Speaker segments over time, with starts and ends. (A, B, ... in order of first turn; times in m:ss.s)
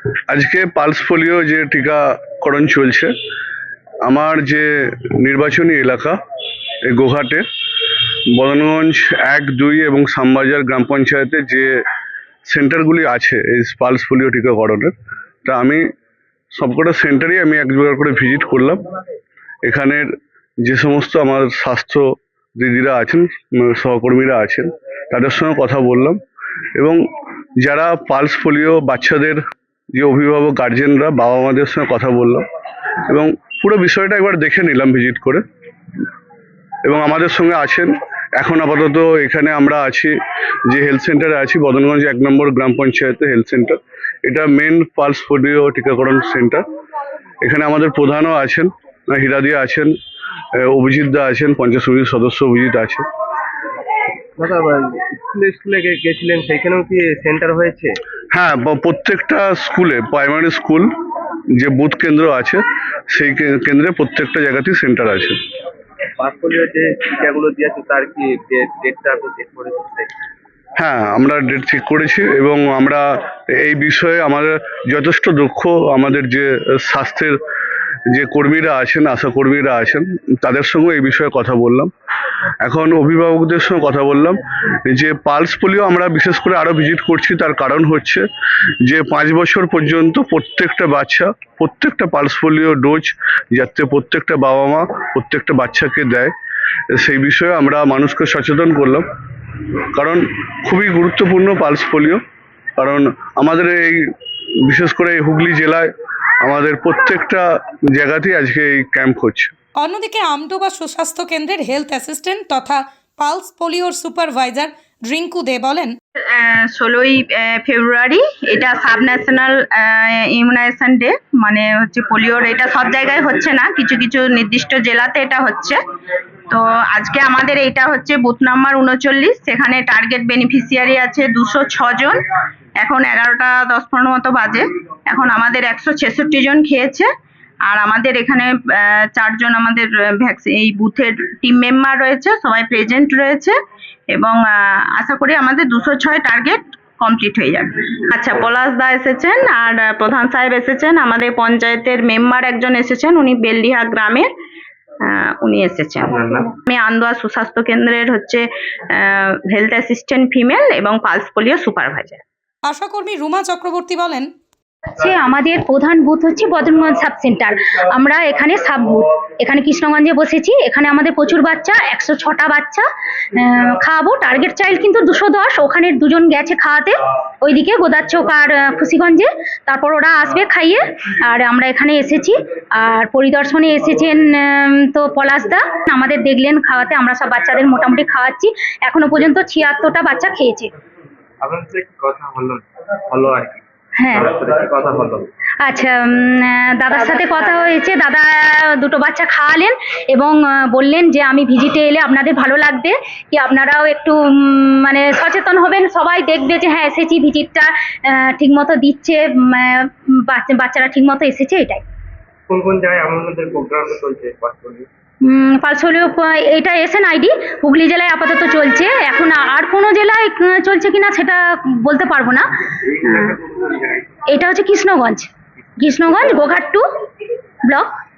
0:00.3-0:03.1 A
0:04.0-0:06.2 A
0:06.8-0:07.4 A
0:08.3-0:11.8 A
0:12.5-0:14.9 A
0:15.4-0:15.8 A
0:16.5-0:18.8 A
0:19.6-0:20.1 A
0:20.6-0:26.2 A
0:26.8-0:27.0 A
0:27.6-0:29.4 A
0:30.0-0:32.4 A
0:33.1-0:35.4 A
0:36.8-0:40.2 A
0:40.7-0:46.6 A
0:47.4-0:49.9 A
0:50.6-0:53.0 A
0:54.4-0:58.0 B
0:58.3-1:00.9 A
1:01.6-1:05.4 A
1:06.2-1:10.1 B
1:10.8-1:17.4 A
1:18.1-1:21.9 A
1:22.6-1:28.3 A
1:28.8-1:36.3 A
1:36.9-1:39.1 A
1:39.9-1:42.2 A
1:42.8-1:45.9 A
1:46.4-1:49.5 A
1:49.8-1:56.0 C
1:56.3-2:05.8 D
2:06.5-2:12.2 D
2:12.8-2:17.1 D
2:17.6-2:23.6 D
2:24.1-2:34.3 D
2:35.0-2:42.2 D
2:36.1-2:36.5 B
2:42.7-2:44.3 C
2:44.9-3:10.7 E
3:11.4-3:13.6 B
3:14.0-3:14.2 E
3:14.1-3:15.3 B
3:15.6-3:31.8 E
3:32.5-3:34.9 B
3:35.2-3:43.4 E
3:44.3-3:46.8 E
3:47.6-3:47.9 E